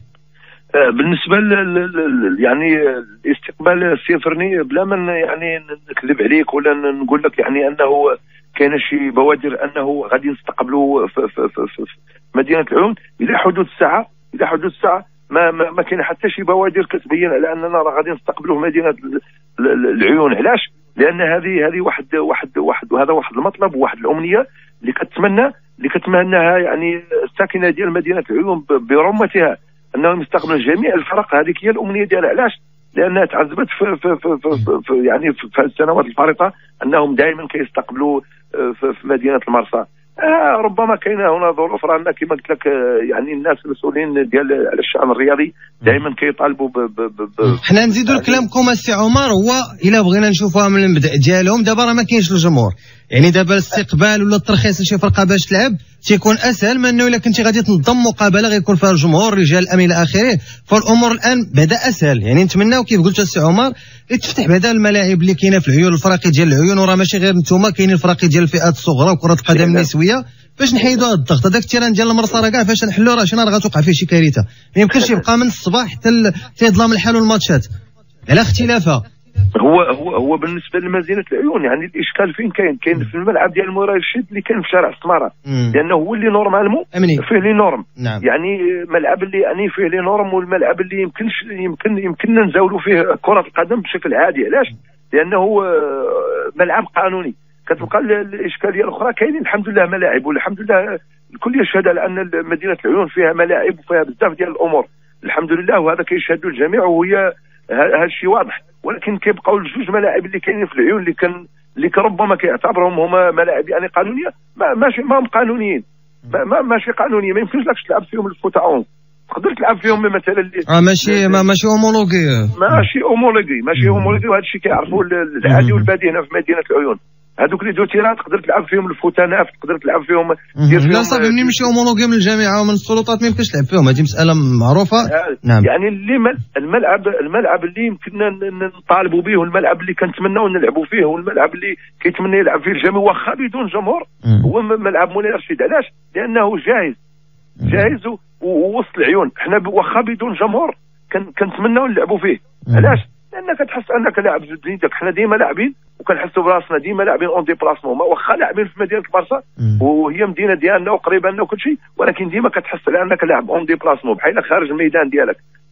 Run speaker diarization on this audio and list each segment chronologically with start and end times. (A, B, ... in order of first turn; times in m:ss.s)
0:00.8-0:48.4 A
0:47.6-1:17.6 B
1:09.5-1:09.9 A
1:15.0-1:15.2 A
1:18.3-1:19.0 B
1:19.6-1:40.8 A
1:25.5-1:25.8 B
1:26.9-1:27.2 B
1:41.3-1:47.2 A
1:47.7-2:01.4 A
2:00.7-2:02.8 B
2:02.6-2:11.7 A
2:03.8-2:04.2 B
2:05.4-2:05.9 B
2:10.6-2:15.6 B
2:15.0-2:27.0 A
2:27.6-2:27.9 B
2:27.7-2:45.4 A
2:32.7-2:33.0 B